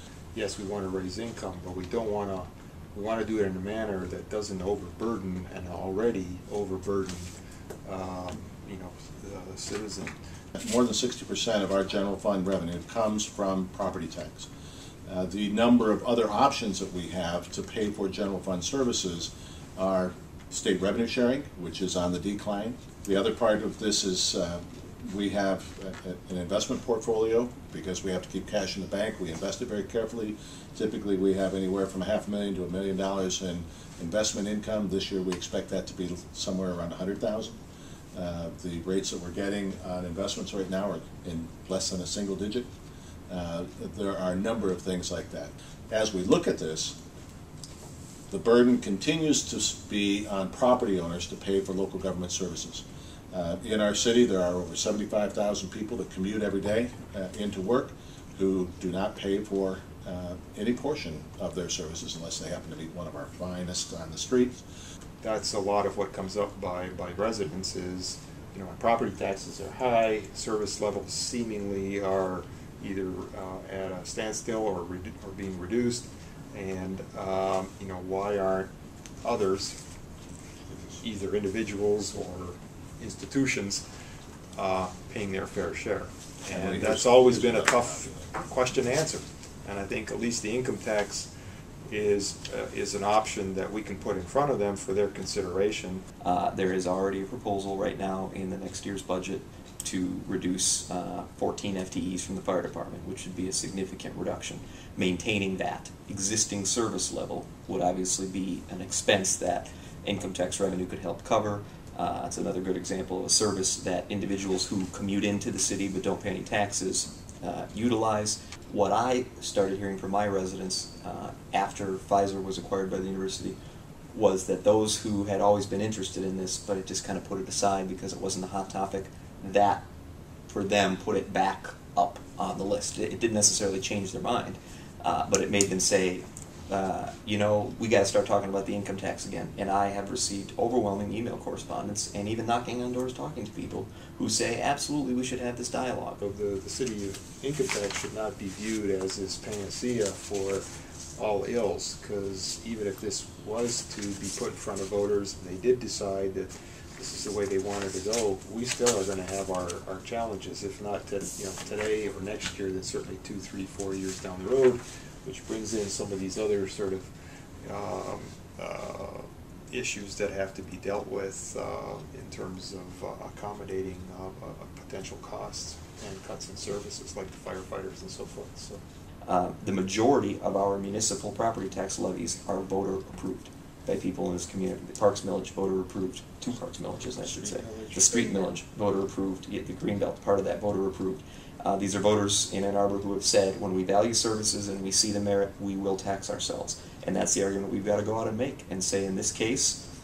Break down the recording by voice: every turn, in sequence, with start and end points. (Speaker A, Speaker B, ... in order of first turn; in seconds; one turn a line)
Speaker A: 0.3-7.3
Speaker A: 7.8-10.1
Speaker B: 10.6-14.5
Speaker B: 15.1-37.6
Speaker B: 38.1-42.7
Speaker B: 43.3-47.0
Speaker B: 48.3-64.6
Speaker A: 65.2-78.7
Speaker A: 79.2-79.8
Speaker A: 81.0-83.8
Speaker A: 84.5-91.3
Speaker B: 86.4-88.3
Speaker A: 91.9-96.0
Speaker C: 96.2-123.6
Speaker C: 124.1-129.8
Speaker C: 130.5-146.2
Speaker A: 146.2-150.6
Speaker A: 151.2-167.1
Speaker A: 167.6-178.8
Speaker C: 179.2-199.8
Speaker A: 187.2-188.6